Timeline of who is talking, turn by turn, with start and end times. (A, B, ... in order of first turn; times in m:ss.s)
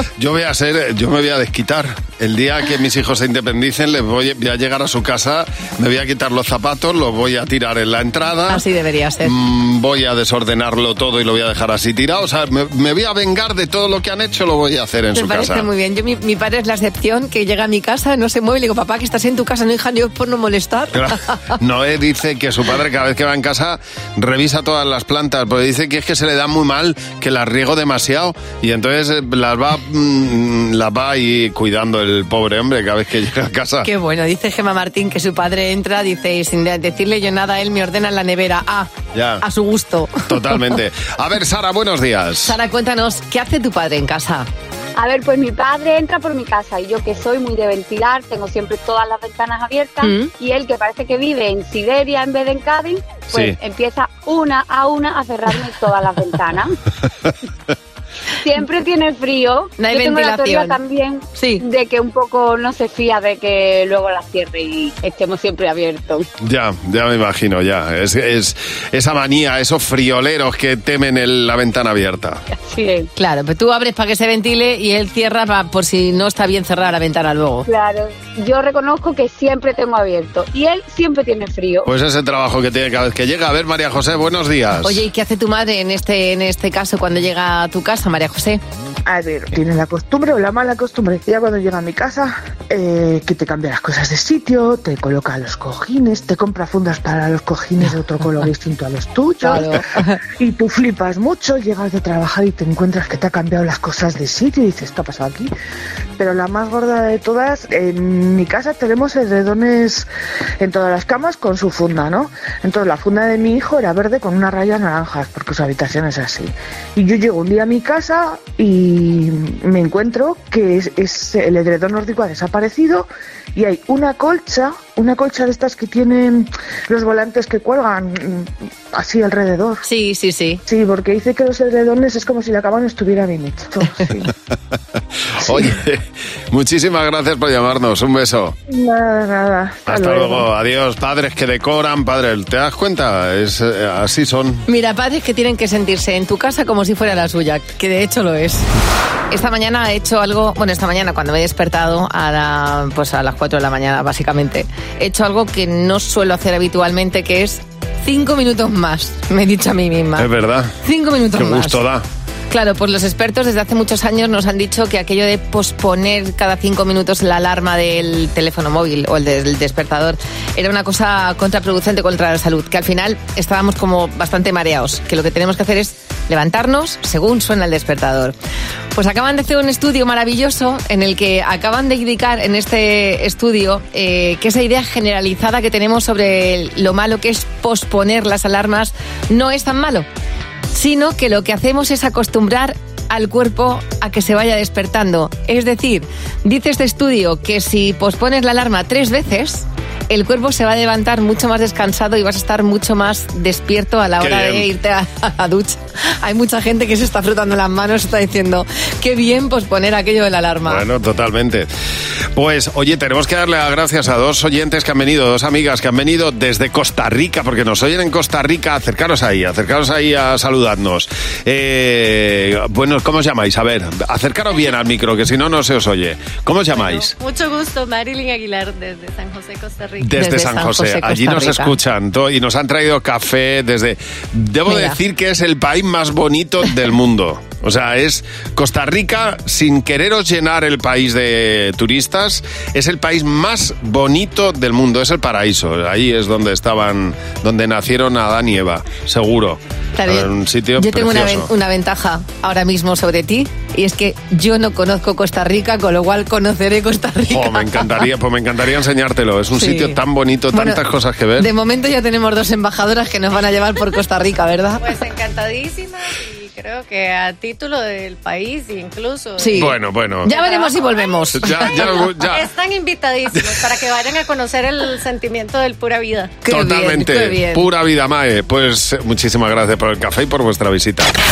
0:00.2-0:08.6 A
0:08.5-0:09.3 B
0:09.2-0:15.7 A
0:15.1-0:21.3 B
0:20.9-0:33.9 A
0:33.8-0:40.6 B
0:39.1-0:39.4 A
0:40.3-0:42.6 A
0:42.4-0:44.5 B
0:45.0-0:56.8 C
0:50.0-0:50.3 B
0:53.3-0:53.6 A
0:58.4-1:06.3 C
0:59.8-1:00.8 B
1:01.3-1:01.6 B
1:06.4-1:12.4 A
1:12.5-1:13.1 C
1:13.2-1:17.7 B
1:17.7-1:21.9 C
1:21.9-1:25.0 A
1:24.8-1:28.6 B
1:29.1-1:39.7 D
1:39.4-1:40.2 B
1:40.4-1:45.5 D
1:46.2-1:50.1 D
1:50.6-2:09.8 D
2:09.8-2:10.6 B
2:10.7-2:14.3 D
2:15.4-2:18.6 A
2:18.7-2:20.4 D
2:19.9-2:24.6 A
2:24.7-2:28.6 B
2:29.3-2:40.3 B
2:40.2-2:40.7 A
2:40.8-2:41.8 B
2:41.4-2:42.0 A
2:42.5-2:58.3 B
2:58.9-3:10.0 B
3:10.7-3:30.8 B
3:24.2-3:24.7 A
3:30.7-3:31.7 A
3:32.3-3:47.1 A
3:46.8-3:50.0 E
3:50.0-4:11.5 A
3:50.1-3:51.7 B
3:54.7-3:55.0 B
4:10.0-4:17.7 B
4:17.3-4:21.5 A
4:19.6-4:20.0 B
4:20.5-4:20.8 B
4:21.4-4:24.8 B
4:24.8-4:29.6 E
4:29.4-4:32.0 B
4:29.5-4:30.3 A
4:30.3-4:36.3 E
4:31.3-4:32.5 A
4:33.3-4:33.6 A
4:36.4-4:37.6 B
4:36.5-4:41.1 A